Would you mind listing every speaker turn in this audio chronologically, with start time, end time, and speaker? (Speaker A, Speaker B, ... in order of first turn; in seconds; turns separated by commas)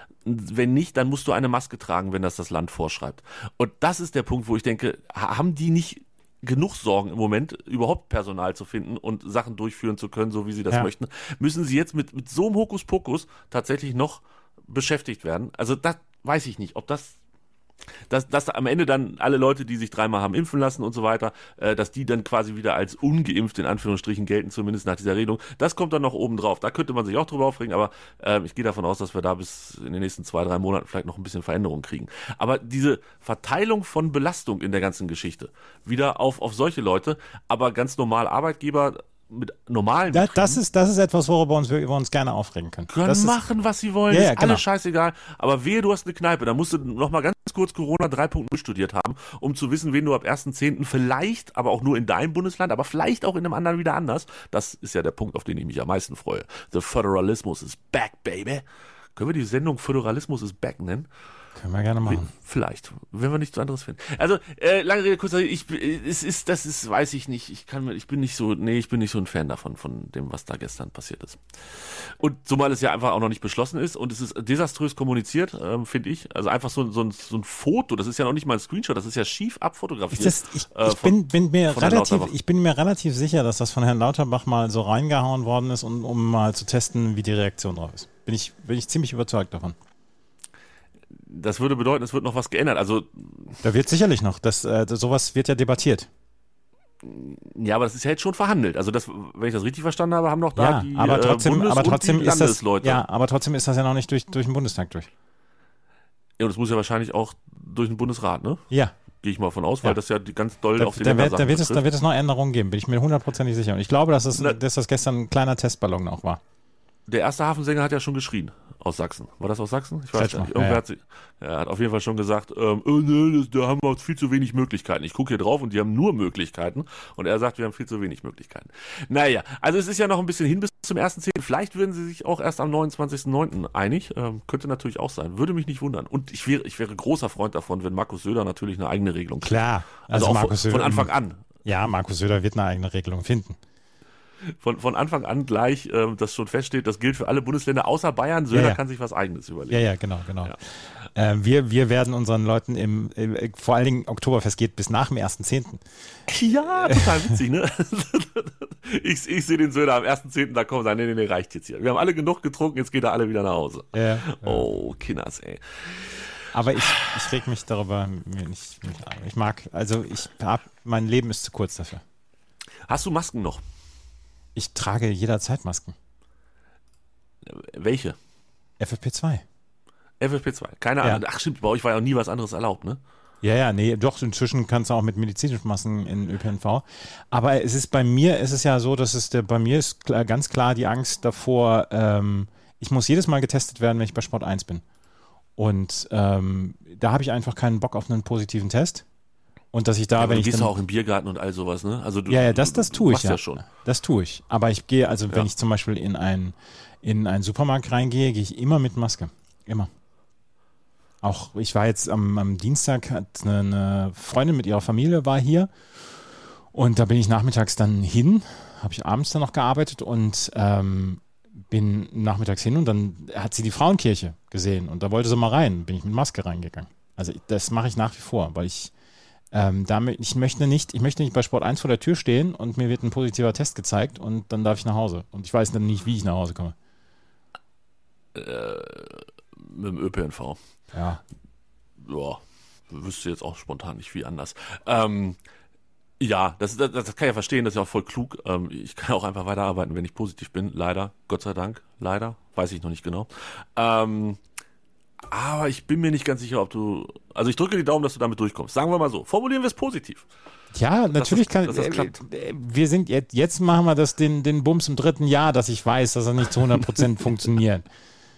Speaker A: 0.2-17.2, Speaker A: 18.1-40.6, Speaker B: 40.1-43.4, Speaker A: 42.9-58.6, Speaker B: 44.1-44.6, Speaker A: 59.1-61.1, Speaker B: 61.5-62.3, Speaker A: 62.0-82.3, Speaker B: 80.1-89.8, Speaker A: 91.1-93.6, Speaker B: 93.6-96.1, Speaker A: 97.0-103.0, Speaker B: 100.5-105.1, Speaker A: 106.4-108.6, Speaker B: 108.7-109.0, Speaker A: 109.2-111.8, Speaker B: 110.8-116.4, Speaker A: 117.1-141.4, Speaker B: 120.1-120.8, Speaker B: 139.4-141.1, Speaker B: 141.6-143.6, Speaker A: 144.4-149.8, Speaker B: 148.5-148.8, Speaker B: 149.7-155.8, Speaker A: 156.3-166.2, Speaker B: 156.8-157.3, Speaker B: 163.9-164.7, Speaker B: 166.5-172.0, Speaker A: 172.9-173.6, Speaker B: 174.5-175.9, Speaker A: 177.4-178.2, Speaker B: 178.8-179.4, Speaker A: 180.2-183.0, Speaker B: 183.4-194.8, Speaker B: 195.6-199.0, Speaker B: 199.7-200.7, Speaker A: 200.2-203.6, Speaker B: 202.3-209.9, Speaker B: 211.2-215.7, Speaker B: 216.7-228.9, Speaker B: 229.5-236.7, Speaker A: 238.3-240.6, Speaker B: 240.9-241.2, Speaker A: 242.0-245.4, Speaker A: 246.2-254.4, Speaker A: 255.3-260.2, Speaker B: 260.7-267.8, Speaker A: 261.1-262.2